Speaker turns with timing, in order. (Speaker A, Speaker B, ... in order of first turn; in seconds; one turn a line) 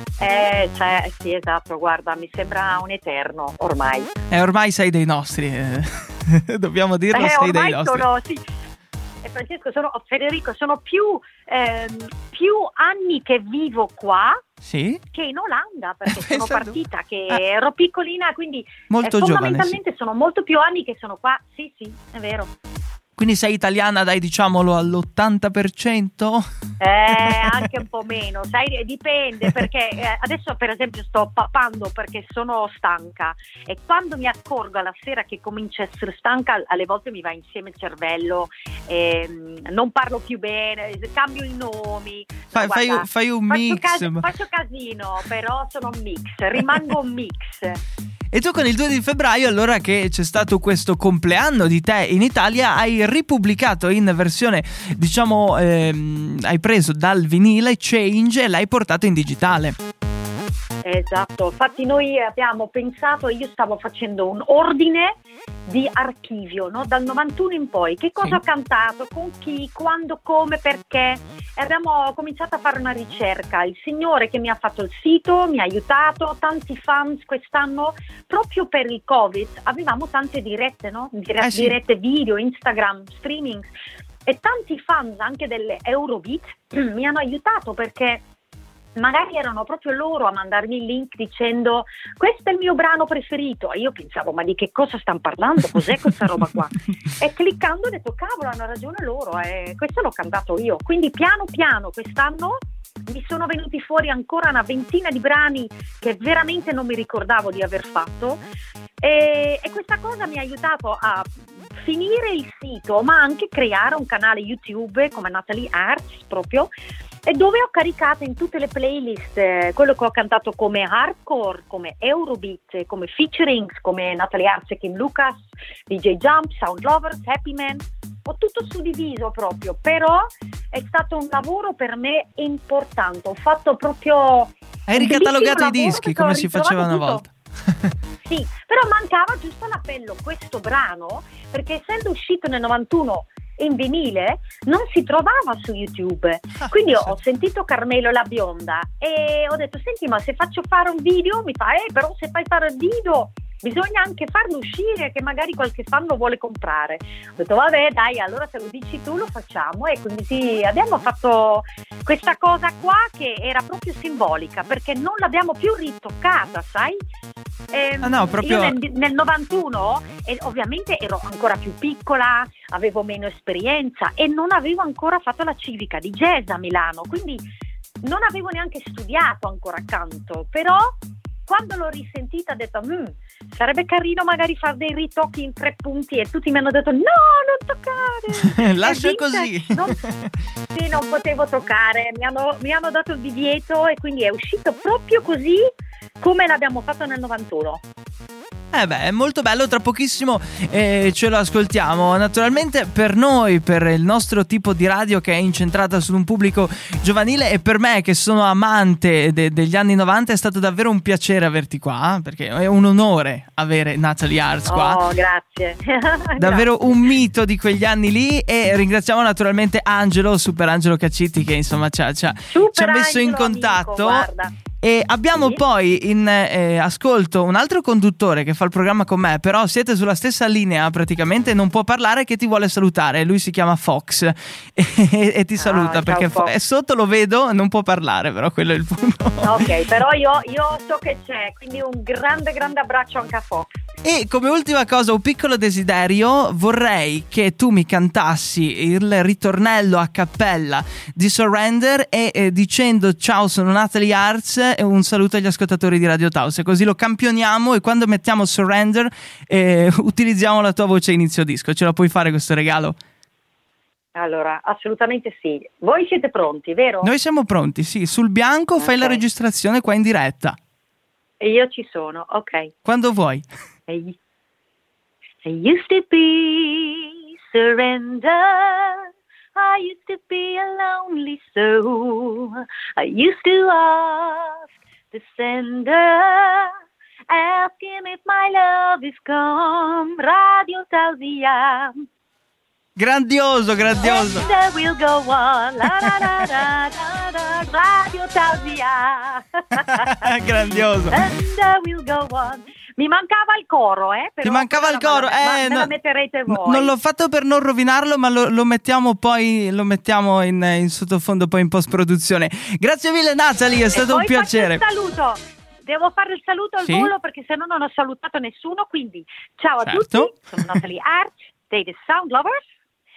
Speaker A: 0.2-4.1
Speaker B: 4.3-8.1
Speaker A: 7.1-8.4
Speaker A: 9.2-14.4
Speaker B: 14.6-15.0
Speaker A: 15.1-22.5
Speaker B: 16.1-16.8
Speaker B: 18.9-19.8
Speaker B: 23.2-26.4
Speaker A: 26.8-47.8
Speaker B: 27.2-27.7
Speaker B: 42.5-44.2
Speaker B: 48.3-59.8
Speaker A: 60.8-65.2
Speaker A: 65.7-83.7
Speaker B: 81.4-81.8
Speaker A: 84.3-88.2
Speaker A: 89.0-108.4
Speaker A: 109.0-116.7
Speaker A: 117.3-137.2
Speaker B: 134.9-137.9
Speaker A: 138.3-167.0
Speaker B: 146.6-147.2
Speaker A: 167.7-177.4
Speaker B: 168.0-168.8
Speaker A: 178.0-190.0
Speaker B: 188.5-190.3
Speaker A: 190.7-195.7
Speaker A: 196.2-197.8
Speaker B: 198.7-215.0
Speaker A: 214.7-216.7
Speaker B: 216.4-224.3
Speaker A: 222.5-224.5
Speaker B: 224.8-239.6
Speaker A: 235.6-236.5
Speaker A: 239.4-243.7
Speaker B: 244.1-263.0
Speaker A: 264.1-267.1
Speaker B: 267.0-270.6
Speaker A: 268.8-269.2
Speaker A: 271.4-272.7
Speaker B: 272.9-273.5
Speaker A: 273.9-274.2
Speaker A: 275.4-284.6
Speaker A: 285.1-286.7
Speaker A: 287.3-292.0
Speaker B: 293.0-294.4
Speaker A: 294.0-300.3
Speaker B: 299.9-301.2
Speaker A: 301.1-306.9
Speaker B: 304.4-305.9
Speaker B: 306.5-314.8
Speaker A: 313.9-322.6
Speaker B: 316.8-317.1
Speaker B: 319.9-320.7